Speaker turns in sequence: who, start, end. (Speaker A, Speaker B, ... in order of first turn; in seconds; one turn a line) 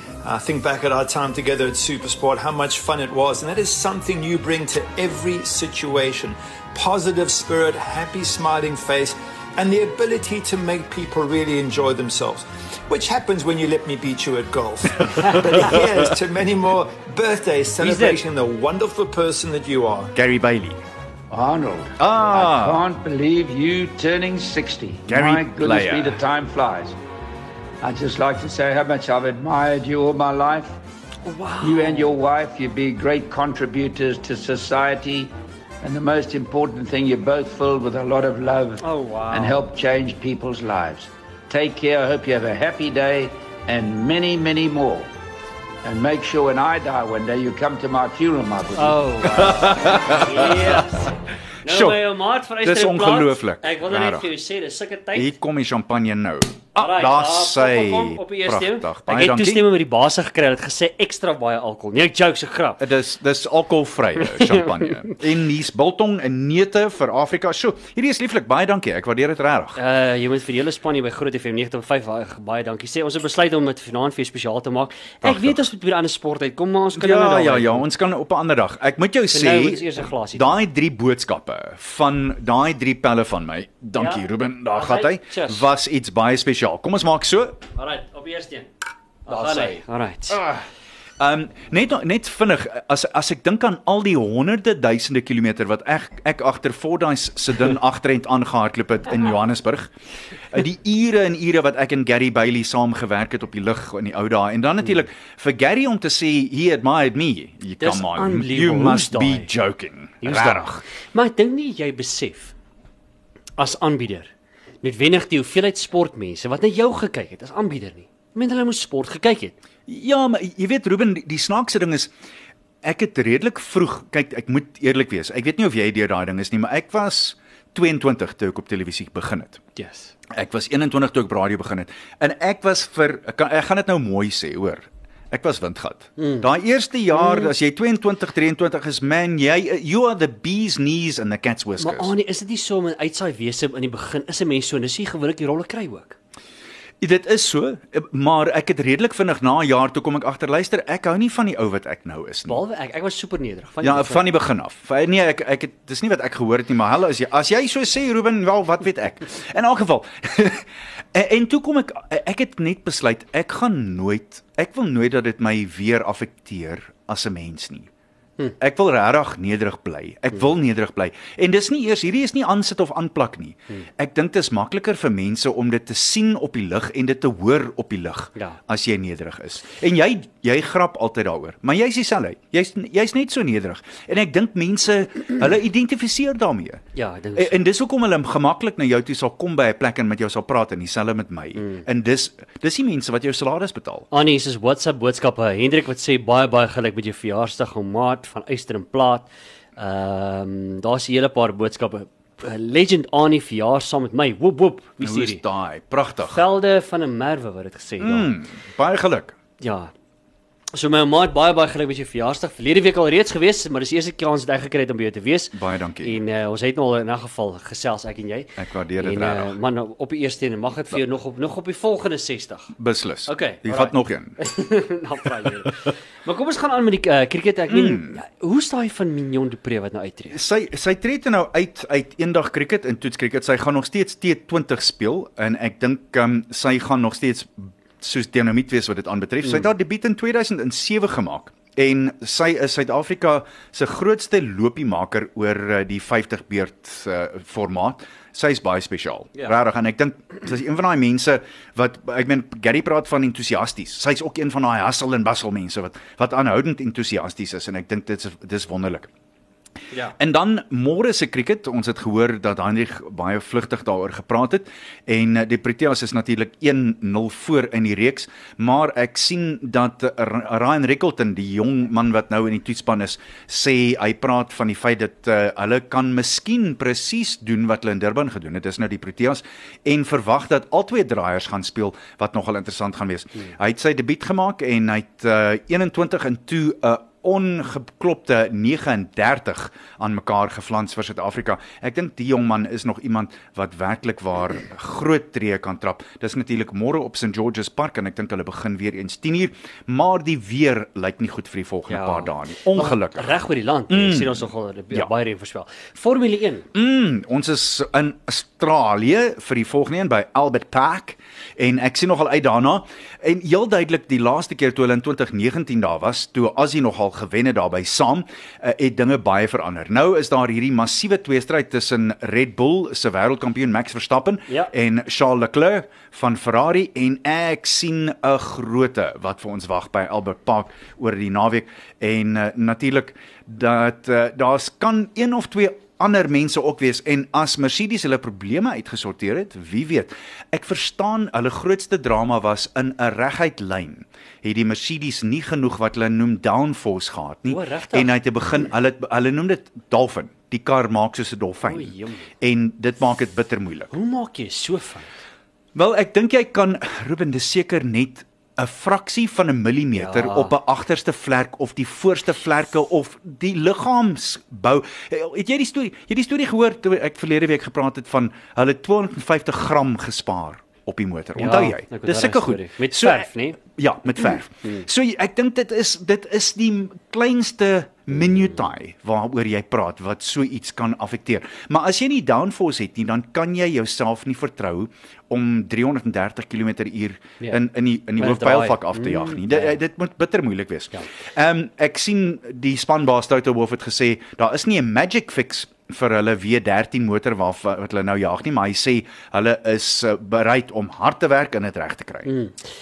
Speaker A: 0.2-20.1
Speaker B: 17.8-18.2
Speaker C: 20.1-20.8
Speaker D: 21.3-27.0
Speaker C: 22.0-22.8
Speaker C: 25.1-26.2
Speaker D: 27.8-30.8
Speaker B: 31.2-32.1
Speaker D: 31.6-35.3
Speaker D: 35.8-45.1
Speaker B: 38.8-39.6
Speaker D: 45.8-49.0
Speaker B: 48.7-55.4
Speaker C: 49.3-51.0
Speaker C: 51.6-52.0
Speaker C: 52.6-54.3
Speaker C: 55.1-59.7
Speaker B: 56.8-62.8
Speaker C: 62.8-69.8
Speaker B: 69.8-77.9
Speaker C: 75.2-75.6
Speaker C: 76.9-87.6
Speaker B: 79.3-80.6
Speaker B: 84.0-85.7
Speaker B: 87.8-88.7
Speaker B: 89.3-90.5
Speaker C: 89.3-89.7
Speaker C: 90.3-90.6
Speaker C: 91.2-99.9
Speaker C: 100.5-110.8
Speaker B: 107.8-109.5
Speaker B: 110.2-112.5
Speaker B: 113.6-114.3
Speaker B: 114.8-119.5
Speaker C: 119.9-122.1
Speaker C: 122.8-129.6
Speaker B: 129.8-130.1
Speaker C: 130.3-142.1
Speaker B: 136.2-136.5
Speaker B: 137.1-137.5
Speaker B: 141.8-146.2
Speaker C: 147.0-152.6
Speaker B: 152.5-154.3
Speaker C: 153.8-167.9
Speaker C: 168.6-186.8
Speaker B: 186.9-187.6
Speaker C: 187.3-194.1
Speaker B: 191.6-191.8
Speaker B: 194.1-205.4
Speaker C: 205.0-206.5
Speaker B: 206.3-208.3
Speaker C: 208.0-209.4
Speaker B: 209.6-209.9
Speaker B: 210.7-222.7
Speaker C: 215.5-216.2
Speaker C: 218.6-219.6
Speaker C: 222.8-224.4
Speaker B: 223.3-230.4
Speaker C: 227.7-228.2
Speaker C: 230.3-259.1
Speaker C: 260.2-303.4
Speaker B: 301.9-306.7
Speaker C: 303.9-305.1
Speaker C: 306.7-353.9
Speaker B: 347.5-348.1
Speaker B: 351.6-352.2
Speaker B: 353.9-355.2
Speaker C: 355.8-402.3
Speaker B: 359.9-360.5
Speaker B: 371.4-373.6
Speaker B: 388.2-389.8
Speaker B: 402.2-402.6